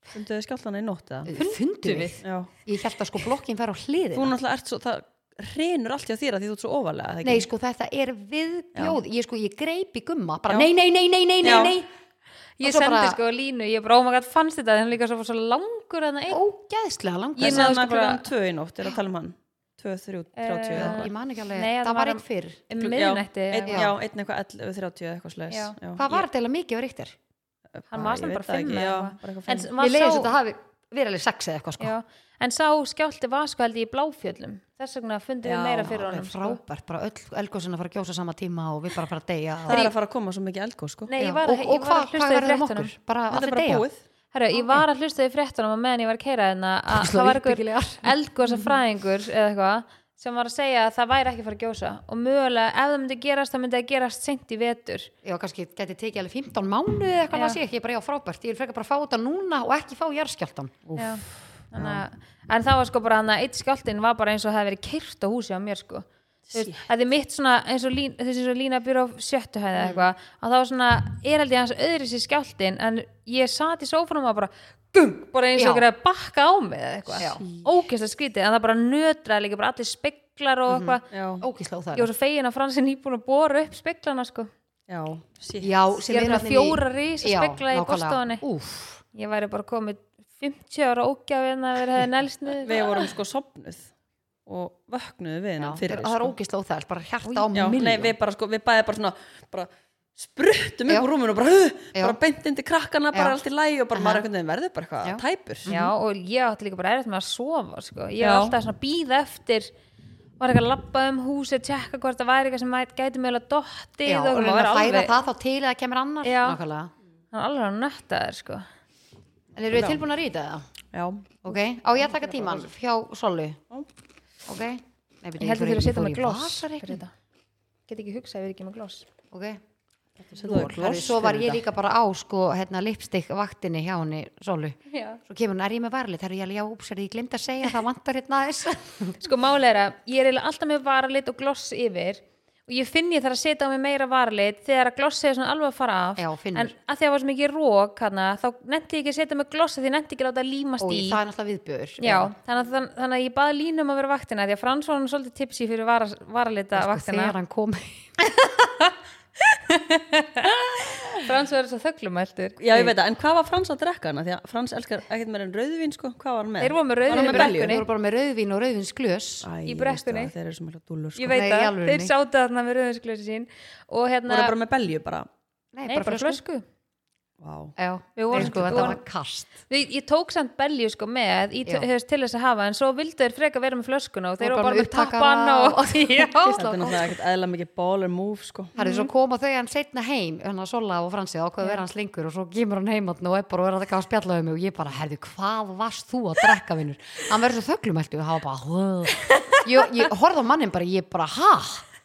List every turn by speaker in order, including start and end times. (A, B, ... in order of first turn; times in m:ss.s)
0:00.1-0:01.5 A
0:01.3-0:04.4 B
0:01.8-0:02.2 C
0:02.2-0:02.5 A
0:04.1-0:07.5 A
0:07.2-0:11.9 B
0:11.4-0:11.8 A
0:12.6-0:16.4 C
0:12.6-0:13.2 B
0:16.3-0:17.8 B
0:17.4-0:18.3 C
0:17.4-0:21.1 A
0:20.4-0:23.9 C
0:20.7-0:22.6 B
0:22.8-0:26.2 A
0:23.7-0:23.9 B
0:25.5-0:25.8 C
0:26.0-0:27.2 B
0:27.7-0:29.7 A
0:27.9-0:30.3 C
0:29.8-0:31.9 B
0:31.8-0:36.6 C
0:35.4-0:35.9 A
0:35.8-0:39.9 B
0:39.7-0:41.1 A
0:41.1-0:42.9 C
0:41.2-0:43.8 B
0:43.3-0:44.0 A
0:44.3-0:55.1 C
0:46.9-0:48.7 B
0:55.2-1:00.9 B
0:57.3-0:57.6 C
1:00.9-1:02.0 A
1:01.0-1:21.0 C
1:06.5-1:06.8 A
1:09.8-1:10.1 B
1:15.6-1:15.8 B
1:17.2-1:17.4 B
1:17.2-1:17.7 A
1:20.7-1:22.1 B
1:21.1-1:21.4 A
1:21.9-1:24.5 C
1:24.9-1:25.8 A
1:25.6-1:29.0 B
1:26.1-1:28.4 C
1:29.1-1:33.0 C
1:32.6-1:33.9 A
1:34.4-1:36.3 A
1:35.6-1:38.1 B
1:37.2-1:37.5 C
1:37.5-1:45.7 A
1:43.1-1:43.4 B
1:43.9-1:44.2 B
1:45.0-1:45.9 B
1:45.7-1:49.7 C
1:48.2-1:48.6 A
1:50.4-1:55.1 C
1:54.0-1:56.9 B
1:56.2-1:56.6 C
1:57.3-1:58.6 C
1:59.5-2:00.6 B
1:59.7-2:00.0 A
2:00.9-2:01.4 A
2:01.4-2:03.6 B
2:02.3-2:02.6 A
2:04.4-2:07.0 B
2:05.4-2:07.1 C
2:07.9-2:09.0 C
2:09.3-2:09.6 B
2:10.2-2:11.6 A
2:10.4-2:19.2 B
2:14.9-2:15.2 C
2:19.2-2:31.2 C
2:26.2-2:26.7 B
2:30.8-2:32.3 B
2:32.0-2:37.3 C
2:36.7-2:38.1 B
2:38.3-2:40.5 C
2:40.5-2:41.2 A
2:41.2-2:42.6 C
2:42.6-2:47.8 A
2:46.6-2:47.8 C
2:47.1-2:49.5 B
2:49.4-2:51.4 A
2:49.6-2:50.3 C
2:51.2-2:54.5 C
2:51.3-2:52.1 B
2:54.3-2:55.3 A
2:55.7-2:56.4 B
2:55.9-2:56.6 C
2:57.4-2:57.8 A
2:57.8-2:59.6 B
2:58.2-2:59.0 C
2:58.3-2:58.9 A
2:59.6-3:06.6 C
3:04.4-3:07.2 B
3:06.5-3:08.7 A
3:08.8-3:09.1 C
3:08.8-3:21.8 B
3:19.2-3:19.6 C